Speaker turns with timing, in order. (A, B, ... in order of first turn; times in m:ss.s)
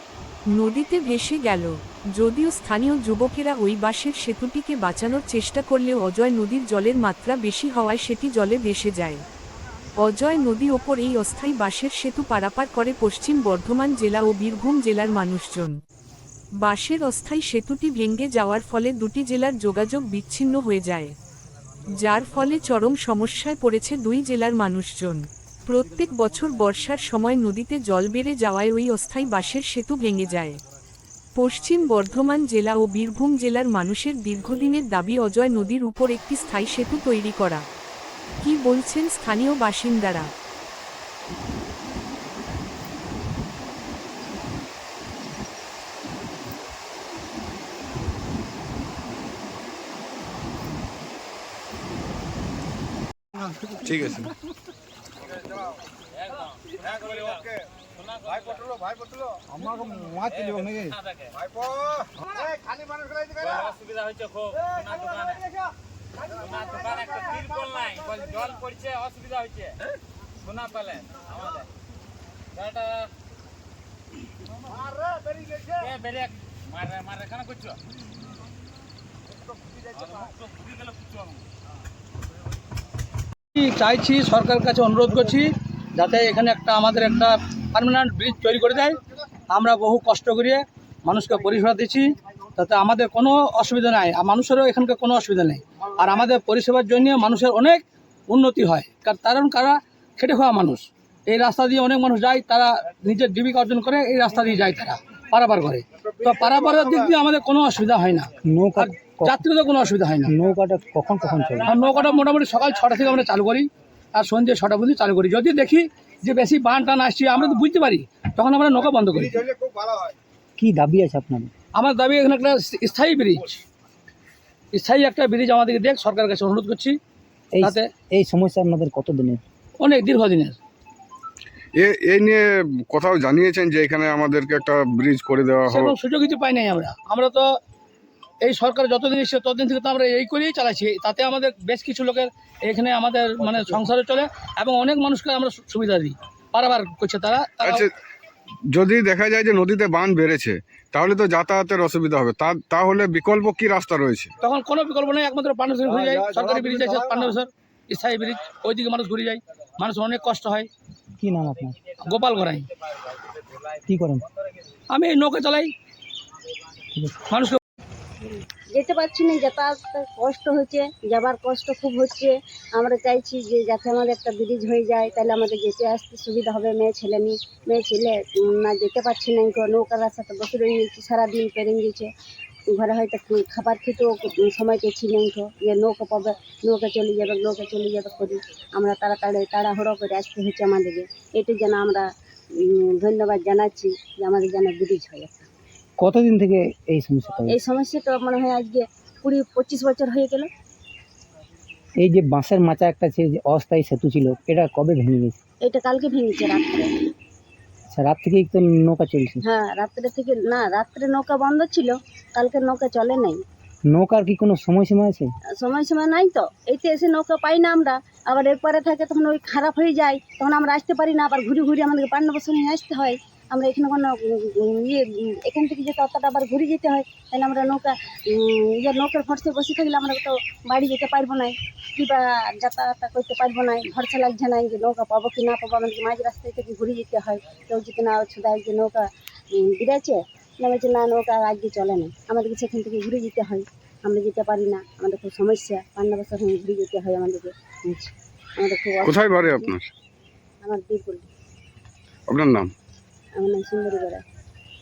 0:00.5-0:09.2 A
0:10.0-0:15.8 A
0:16.6-0:21.1 A
0:21.9-0:30.6 A
0:31.4-0:37.6 A
0:38.4-0:40.3 A
0:53.8-0:54.3 B
0:57.0-0:57.5 B
0:58.0-0:58.4 C
0:58.4-0:59.5 B
1:00.1-1:00.9 C
1:01.5-1:02.0 B
1:03.6-1:05.4 C
1:06.4-1:09.7 C
1:10.4-1:11.2 C
1:12.6-1:13.1 C
1:15.8-1:17.7 C
1:23.5-1:29.0 D
1:29.5-1:50.3 D
1:48.5-1:49.4 E
1:50.3-1:51.7 E
1:51.6-1:59.5 D
2:00.6-2:01.5 E
2:01.8-2:03.6 D
2:04.7-2:07.0 D
2:07.5-2:09.4 E
2:09.8-2:10.6 D
2:11.8-2:15.9 B
2:15.7-2:17.5 D
2:18.4-2:27.8 D
2:27.6-2:27.9 B
2:28.7-2:34.3 B
2:34.4-2:40.7 D
2:41.2-2:41.8 E
2:42.0-2:42.7 D
2:43.9-2:44.2 E
2:44.9-2:45.7 D
2:47.3-2:47.6 D
2:48.2-3:02.1 F
3:02.7-3:15.5 F
3:16.0-3:17.6 E
3:17.5-3:20.5 F
3:22.0-3:25.3 E
3:25.6-3:27.0 F
3:27.9-3:29.4 E
3:29.4-3:33.4 F
3:33.9-3:35.3 E
3:35.6-4:09.7 F
4:09.0-4:09.9 B
4:10.6-4:11.2 F
4:12.3-4:12.7 B
4:13.4-4:14.2 F